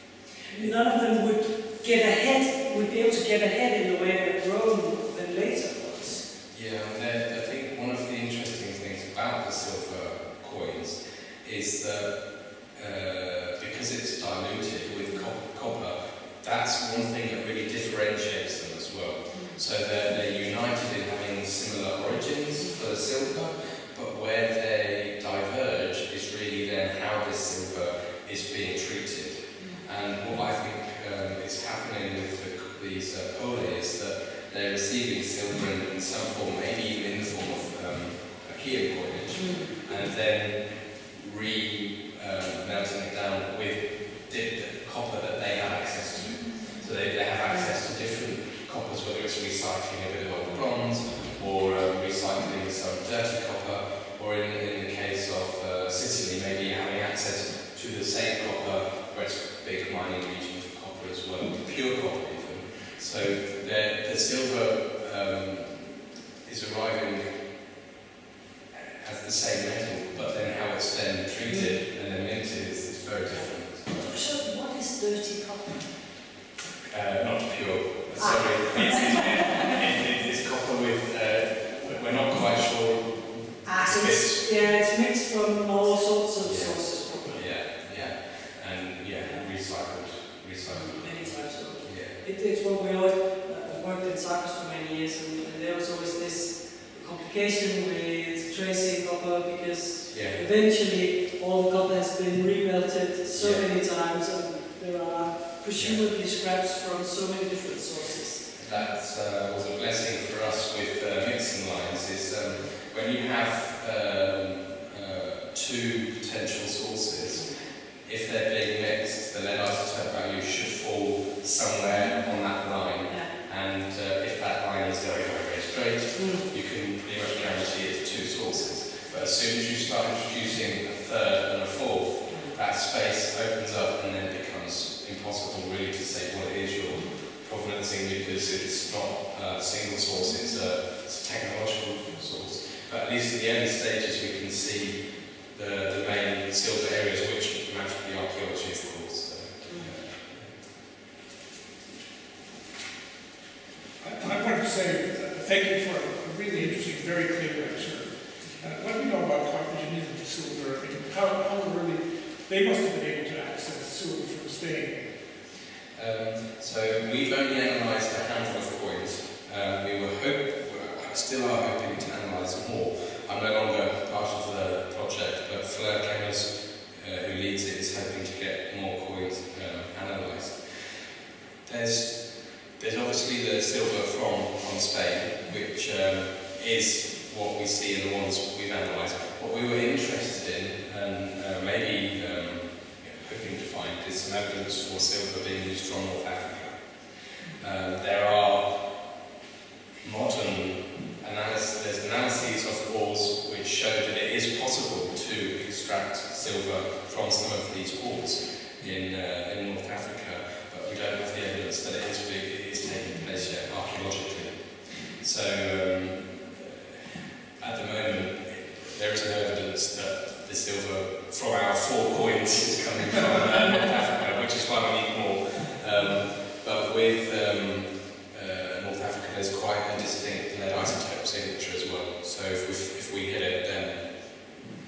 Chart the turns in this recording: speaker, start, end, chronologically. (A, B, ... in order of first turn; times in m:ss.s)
0:00.5-0:06.2 A
0:06.5-1:07.4 B
0:19.3-0:19.6 A
0:39.4-0:39.9 A
1:08.7-1:14.2 B
1:14.0-1:15.9 A
1:16.8-1:24.5 B
1:18.2-1:19.6 A
1:23.6-1:28.1 A
1:26.4-1:32.2 B
1:30.7-1:48.5 A
1:40.1-1:40.4 B
1:43.4-1:43.6 B
1:48.6-2:30.6 B
2:06.2-2:06.5 A
2:34.0-2:45.0 C
2:45.9-3:01.0 B
3:01.6-3:16.8 B
3:17.5-3:19.0 B
3:20.0-3:54.5 B